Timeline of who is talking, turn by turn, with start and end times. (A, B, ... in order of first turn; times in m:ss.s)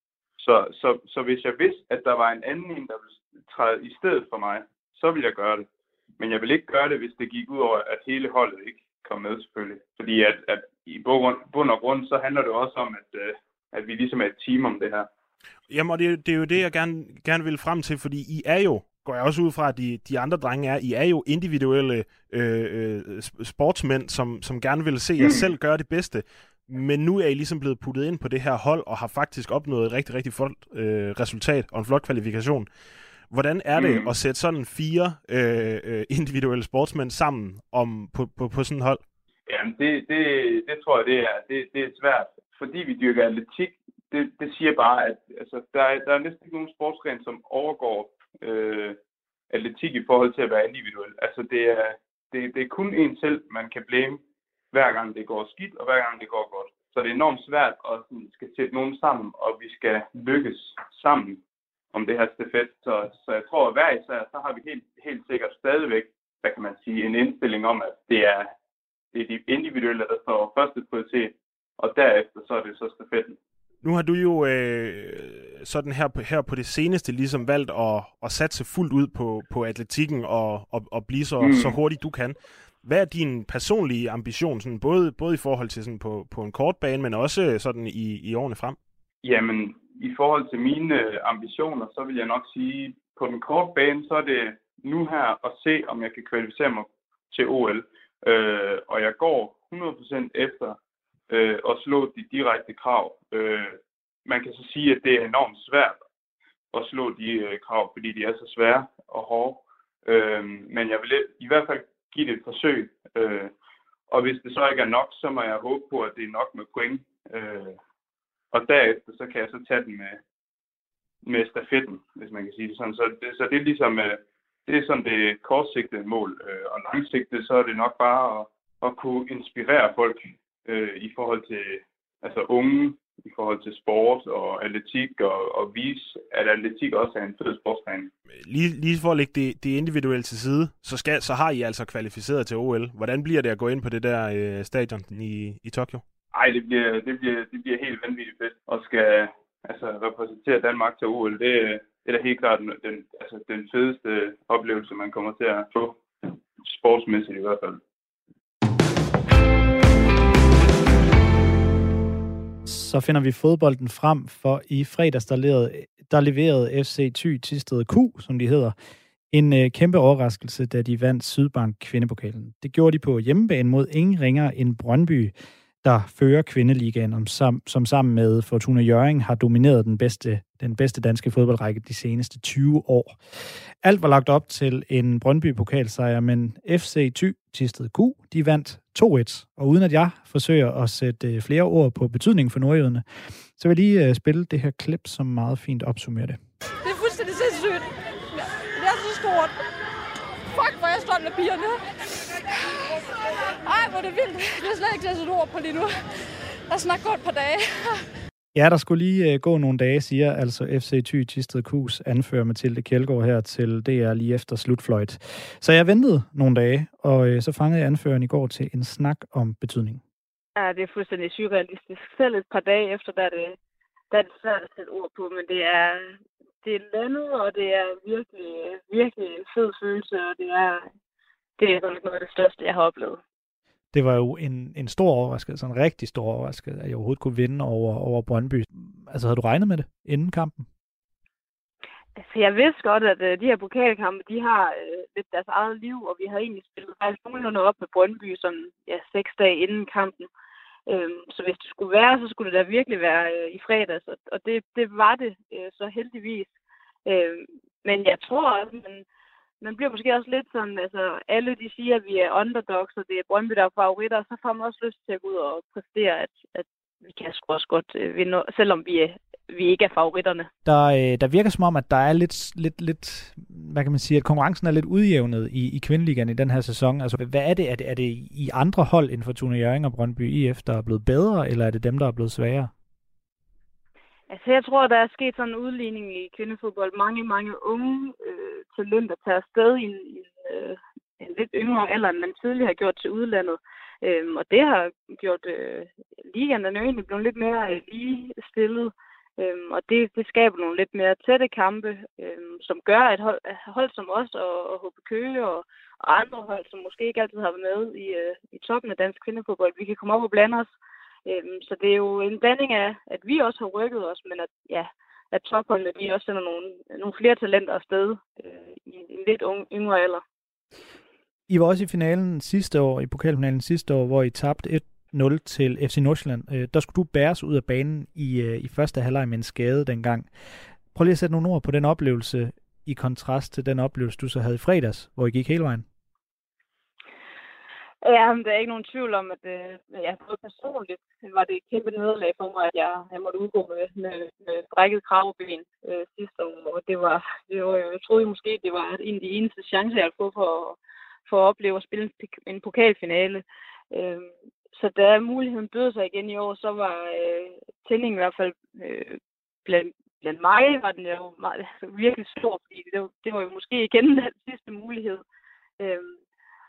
0:00.4-0:05.7 A
0:06.2-0:15.1 A
0:15.7-0:39.0 B
0:25.2-0:25.4 A
0:33.8-0:34.1 A
0:39.5-0:49.0 A
0:49.5-0:54.2 A
0:54.7-1:01.4 A
1:01.9-1:08.5 A
1:09.1-1:13.4 A
1:13.8-1:28.8 B
1:21.4-1:21.8 A
1:29.2-1:40.8 A
1:41.3-1:46.0 A
1:46.7-1:53.5 A
1:54.1-1:57.8 A
1:58.5-2:00.2 A
2:01.2-2:18.1 A
2:18.4-2:26.0 B
2:26.3-2:36.0 A
2:36.6-2:37.8 A
2:42.6-2:48.8 C
2:49.3-3:03.2 C
3:03.8-3:16.4 C
3:16.8-3:19.6 D
3:20.4-3:28.1 D
3:28.5-3:40.0 C
3:40.6-3:43.6 E
3:44.1-3:50.9 E
3:51.6-3:53.2 E
3:53.9-4:00.7 C
4:02.2-4:10.3 E
4:10.9-4:16.5 E
4:17.1-4:19.1 E
4:19.6-4:30.5 E
4:30.6-4:42.7 C
4:44.3-5:10.7 E
5:11.3-5:20.2 E
5:21.5-5:30.3 C
5:30.9-5:35.9 C
5:38.0-6:05.2 E
6:05.8-6:06.2 E